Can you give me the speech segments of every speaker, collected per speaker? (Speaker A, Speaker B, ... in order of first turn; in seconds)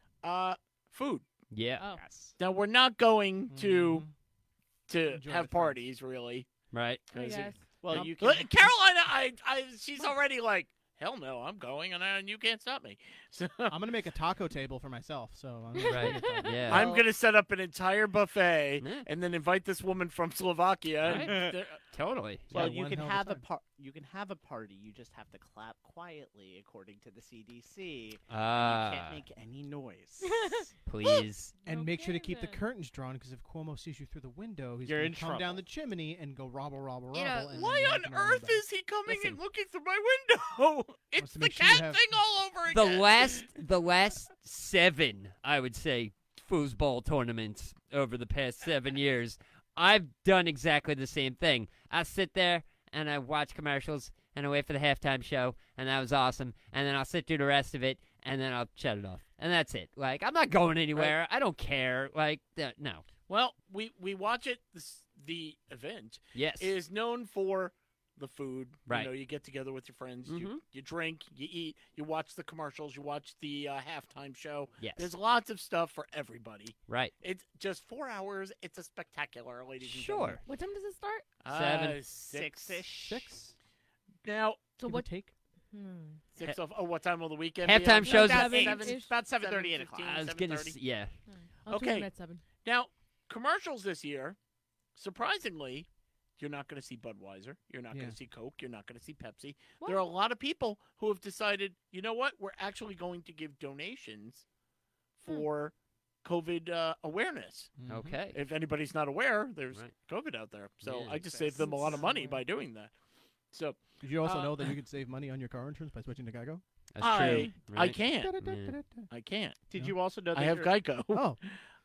Speaker A: 0.2-1.2, 2.4-4.1, 4.9-6.5, 7.1-13.8, 16.7-21.8, 37.5-43.5, 63.3-80.4, 81.4-82.8, 84.2-84.7, 86.3-90.7, 91.7-92.1, 92.6-94.4, 95.0-95.9, 96.4-104.5, 105.2-107.7, 108.3-112.9, 113.5-114.7, 117.0-118.3, 119.1-119.6, 120.3-121.6
Speaker B: 1.5-1.8, 6.7-7.0, 15.9-16.9, 18.8-19.1, 21.0-22.7, 28.3-29.2, 30.9-31.5, 37.1-37.6, 39.1-39.4, 42.7-63.0, 66.3-66.7, 70.3-70.6, 74.8-75.1, 79.8-80.4, 81.5-82.0, 87.6-88.7, 90.0-91.1, 107.9-108.4, 110.8-111.2, 116.9-118.8
Speaker C: 1.8-2.0, 7.1-7.7, 15.8-16.9, 30.2-32.6, 80.5-81.3, 84.8-85.1, 85.7-86.2, 88.0-89.1, 91.3-92.4, 99.8-100.0, 111.6-112.2
Speaker D: 1.9-2.3, 7.8-8.7, 16.7-17.0, 21.1-21.6, 22.5-30.7, 34.9-35.6, 82.3-83.3, 88.1-90.7, 111.3-112.4, 119.7-120.7
Speaker E: 3.5-4.1, 5.0-5.8, 13.7-16.5, 22.5-23.4, 31.7-38.6, 41.2-42.2, 82.9-83.5, 84.8-85.3, 97.9-98.2, 107.8-108.2, 114.0-117.5, 118.1-119.1, 121.1-121.4